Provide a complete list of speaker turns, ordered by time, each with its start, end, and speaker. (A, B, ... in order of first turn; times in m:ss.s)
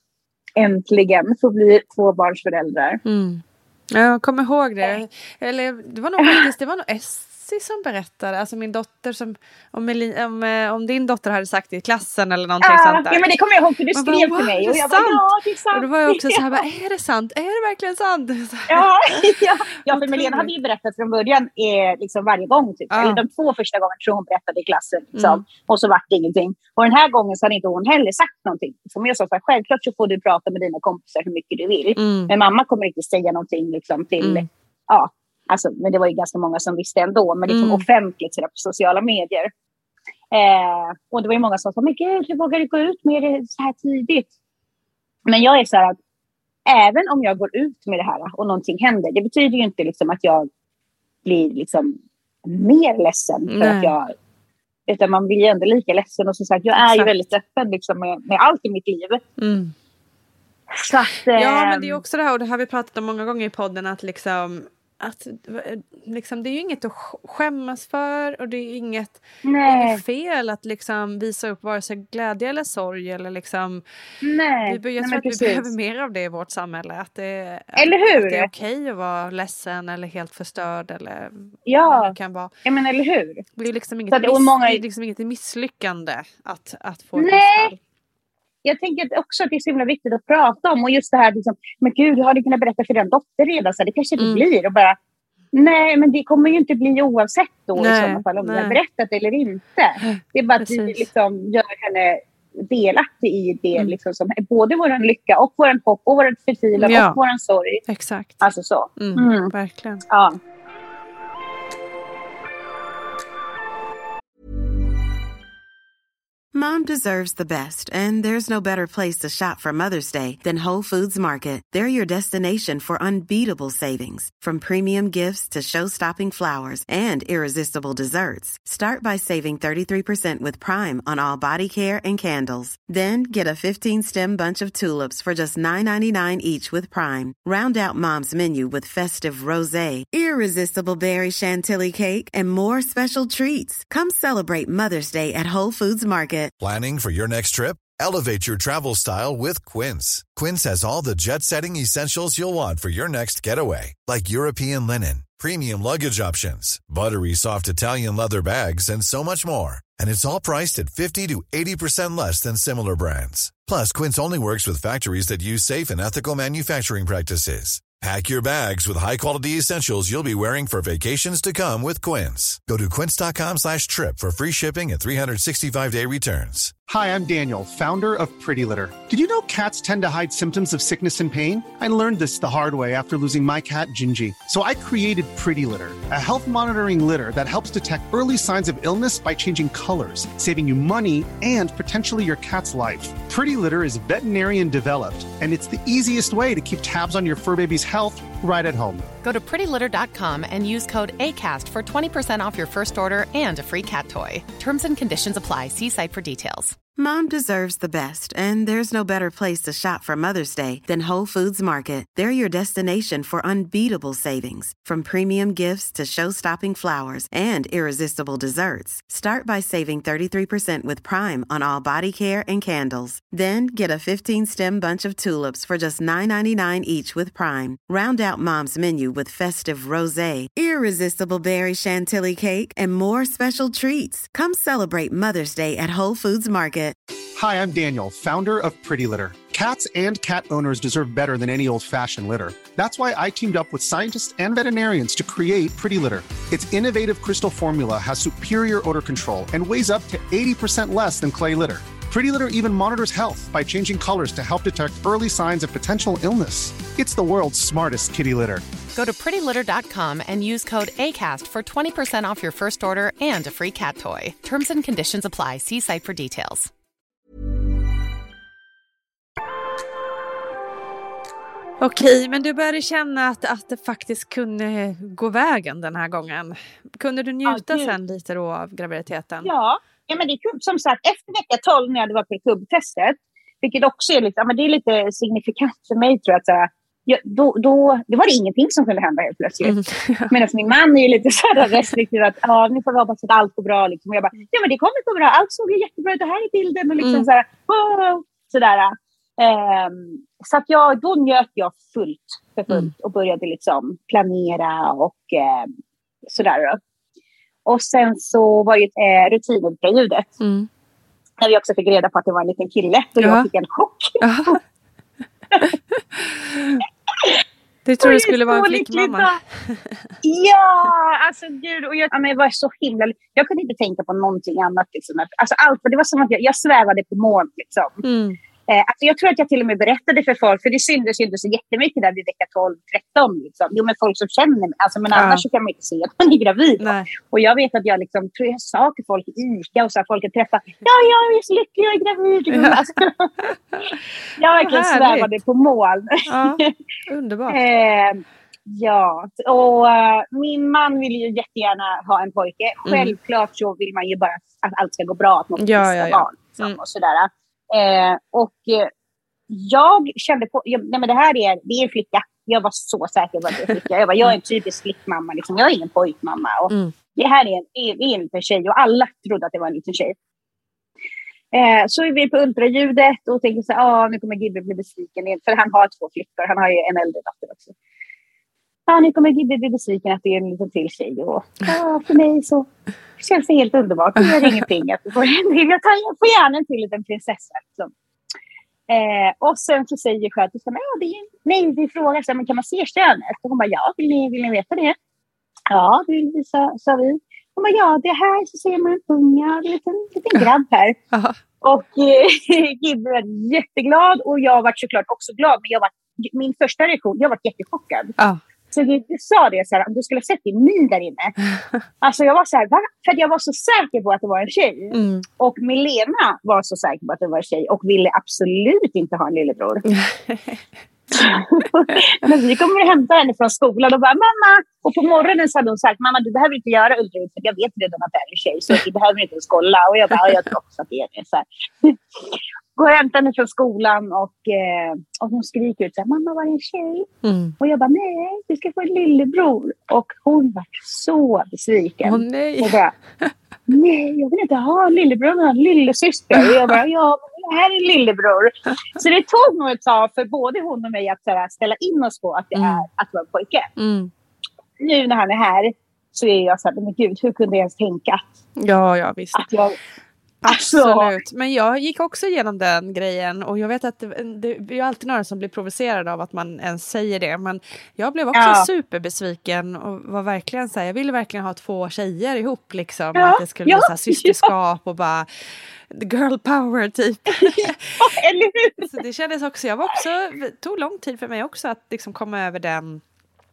0:00.6-0:03.0 A
0:03.0-0:13.2 B
0:12.6-0:16.6 A
0:13.9-0:20.5 B
0:18.7-0:39.5 A
0:22.9-0:23.2 B
0:25.1-0:25.4 B
0:32.0-0:32.3 B
0:34.2-0:34.4 B
0:37.5-0:37.8 B
0:40.3-0:44.3 A
0:45.3-0:46.0 A
0:46.7-0:50.5 A
0:51.2-0:54.1 A
0:53.5-0:53.9 B
0:54.9-0:59.2 A
0:56.8-0:57.1 B
0:59.4-0:59.7 B
1:00.7-1:02.0 A
1:01.3-1:13.8 B
1:09.4-1:10.0 A
1:14.2-1:15.7 A
1:14.7-1:22.5 B
1:17.8-1:18.5 A
1:21.6-1:23.4 A
1:23.6-1:27.8 B
1:24.1-1:24.8 A
1:27.2-1:27.7 A
1:28.6-1:35.0 A
1:34.2-1:34.4 B
1:35.5-1:47.8 A
1:37.8-1:38.8 B
1:40.0-1:41.1 B
1:46.8-1:47.2 B
1:47.9-1:48.4 B
1:48.4-1:49.5 A
1:49.0-1:50.0 B
1:50.1-1:50.4 A
1:56.5-2:26.5 C
2:26.6-2:56.7 D
2:56.9-3:19.0 E
3:19.2-3:26.8 F
3:26.9-3:57.0 C
3:57.4-4:18.6 E
4:18.9-4:26.7 F
4:31.8-4:39.5 B
4:37.5-4:37.9 A
4:39.4-4:49.8 A
4:49.6-4:50.3 B
4:50.3-5:05.7 A
4:57.0-4:57.3 B
5:06.3-5:06.8 A
5:07.6-5:10.3 A
5:10.4-5:10.7 B
5:11.4-5:14.6 A
5:13.2-5:13.5 B
5:14.2-5:14.6 B
5:15.6-5:16.8 B
5:17.8-5:20.0 B
5:18.0-5:19.4 A
5:20.2-5:28.0 A
5:28.0-5:28.4 B
5:28.7-5:43.3 A
5:35.1-5:35.4 B
5:36.8-5:37.1 B
5:42.5-5:42.9 B
5:44.4-5:46.7 A
5:44.5-5:45.3 B
5:46.3-5:47.6 B
5:47.5-5:58.9 A
5:52.8-5:53.1 B
5:55.6-5:56.8 B
5:59.5-6:10.2 A
6:03.6-6:04.4 B
6:06.7-6:06.9 B
6:11.5-6:17.7 A
6:18.9-6:22.7 A
6:23.2-6:27.9 A
6:24.2-6:24.5 B
6:28.9-6:35.0 A
6:35.7-6:41.0 A
6:41.6-6:48.2 A
6:48.7-6:51.4 A
6:52.0-6:59.8 A
6:54.9-6:55.2 B
6:59.9-7:00.6 B
7:01.1-7:22.9 A
7:17.2-7:17.5 B
7:22.0-7:23.3 B
7:23.7-7:33.7 A
7:26.3-7:26.8 B
7:32.5-7:32.8 B
7:33.8-7:34.1 B
7:34.8-7:38.2 A
7:38.6-7:39.4 B
7:39.3-7:39.8 A
7:40.4-7:55.3 B
7:40.5-7:41.1 A
7:48.3-7:48.7 A
7:53.1-7:54.5 A
7:55.9-7:58.0 B
7:57.6-7:59.0 A
7:58.9-8:03.0 B